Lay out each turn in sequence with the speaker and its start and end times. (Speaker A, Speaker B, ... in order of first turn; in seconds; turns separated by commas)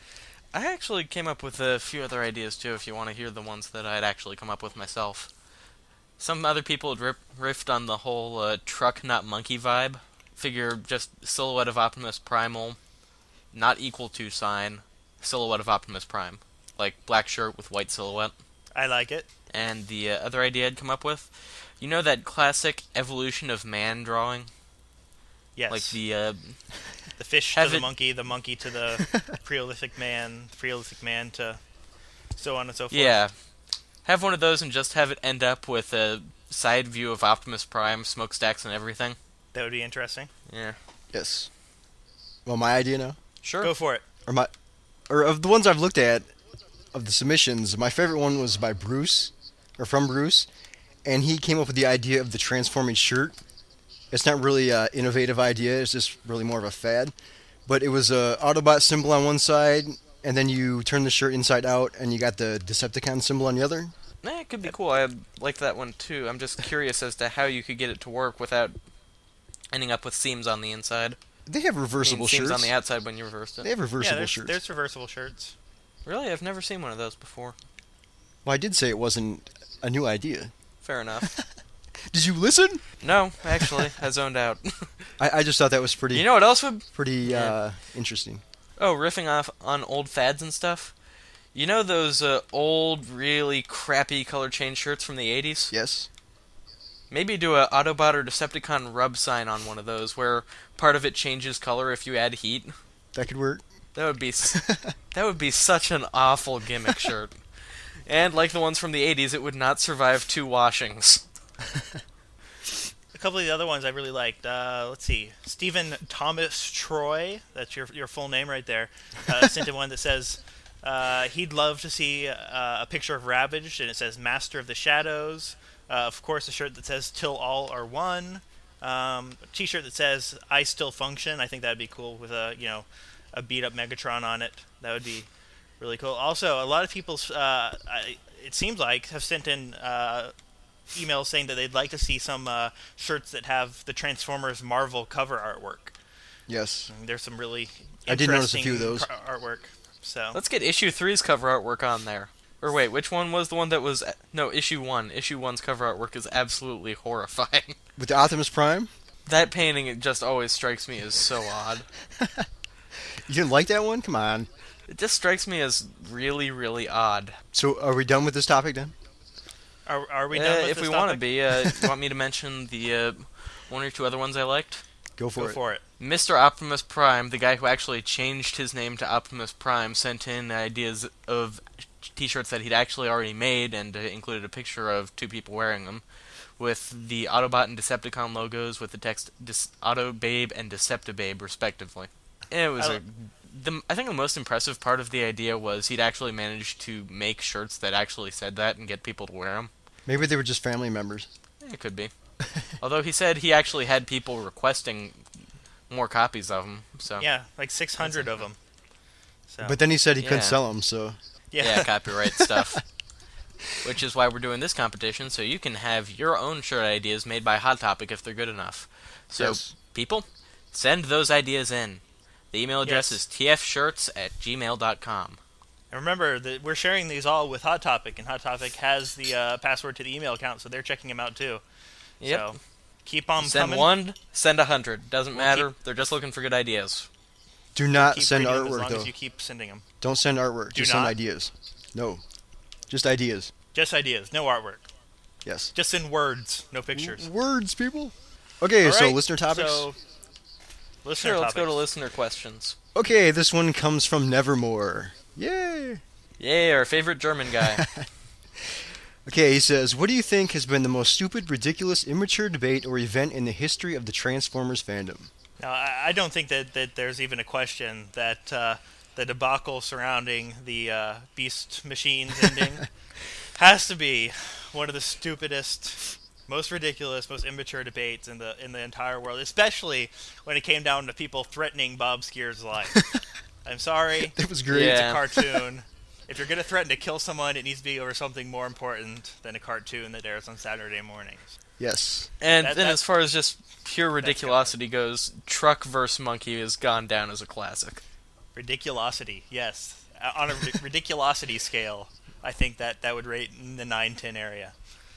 Speaker A: 0.5-5.3, Speaker A: 6.2-12.8, Speaker A: 13.5-18.3, Speaker B: 18.8-19.3, Speaker A: 19.5-24.5, Speaker B: 25.6-25.9, Speaker A: 25.7-26.5, Speaker B: 27.2-31.6, Speaker A: 27.6-27.9, Speaker B: 32.4-33.2, Speaker A: 32.9-33.3, Speaker A: 34.0-39.2, Speaker B: 39.5-40.3, Speaker A: 40.5-40.8, Speaker C: 41.1-41.5, Speaker C: 42.5-43.2, Speaker A: 43.4-43.7, Speaker B: 43.6-44.0, Speaker C: 44.3-44.5, Speaker C: 45.1-46.3, Speaker C: 46.9-50.5, Speaker C: 51.0-53.4, Speaker C: 54.1-57.1, Speaker C: 57.7-63.9, Speaker A: 64.2-68.8, Speaker A: 69.7-71.2, Speaker C: 71.5-72.7, Speaker A: 72.0-73.7, Speaker C: 73.6-74.6, Speaker B: 74.0-75.5, Speaker A: 76.1-77.5, Speaker C: 78.5-80.5, Speaker A: 80.8-81.3, Speaker C: 82.1-82.8, Speaker A: 83.0-85.1, Speaker C: 83.6-83.9, Speaker C: 85.2-86.3, Speaker A: 86.1-87.6, Speaker C: 86.9-88.4, Speaker A: 88.8-90.9, Speaker A: 91.5-95.7, Speaker C: 95.7-96.1, Speaker A: 97.1-102.8, Speaker C: 103.1-103.6, Speaker A: 104.0-107.3, Speaker C: 104.6-104.9, Speaker A: 108.1-111.2, Speaker B: 113.1-135.3, Speaker B: 135.8-140.3, Speaker B: 140.9-145.9, Speaker C: 146.5-146.9, Speaker B: 146.9-150.4, Speaker C: 148.1-149.1, Speaker A: 150.3-157.8, Speaker C: 158.0-158.9, Speaker A: 159.3-161.9, Speaker C: 162.2-162.4, Speaker C: 163.3-164.5, Speaker A: 164.9-167.4, Speaker C: 167.5-168.9, Speaker B: 169.9-171.3, Speaker A: 170.3-174.8, Speaker C: 175.2-175.6, Speaker B: 175.4-175.8, Speaker A: 176.0-186.0, Speaker A: 186.6-199.7, Speaker C: 200.1-201.3, Speaker A: 201.6-202.1, Speaker A: 202.8-205.2, Speaker A: 205.9-207.3, Speaker B: 207.2-208.6, Speaker B: 209.5-209.8, Speaker C: 209.6-211.2, Speaker A: 210.2-210.6, Speaker B: 211.5-211.9, Speaker A: 211.6-212.8, Speaker A: 213.8-225.4, Speaker C: 219.3-219.7, Speaker B: 222.8-223.2, Speaker B: 225.9-231.6, Speaker A: 232.2-232.5, Speaker B: 232.2-233.9, Speaker A: 233.4-237.1, Speaker B: 235.4-235.7, Speaker C: 237.8-239.1, Speaker B: 237.9-239.8, Speaker C: 240.0-242.2, Speaker B: 240.7-241.2, Speaker C: 242.9-243.5, Speaker B: 243.7-244.8, Speaker C: 245.4-245.7, Speaker B: 245.7-247.3, Speaker C: 246.9-249.9, Speaker B: 248.8-250.0, Speaker B: 251.0-251.8, Speaker A: 251.2-252.8, Speaker C: 252.9-256.0, Speaker A: 256.4-257.9, Speaker C: 257.7-258.1, Speaker C: 259.3-265.3, Speaker B: 265.6-272.9, Speaker B: 273.6-283.0, Speaker B: 283.6-291.6, Speaker C: 284.4-285.6, Speaker A: 284.7-285.2, Speaker C: 291.8-292.3, Speaker A: 292.4-298.0, Speaker B: 292.6-293.0, Speaker B: 294.2-294.8, Speaker B: 298.6-304.7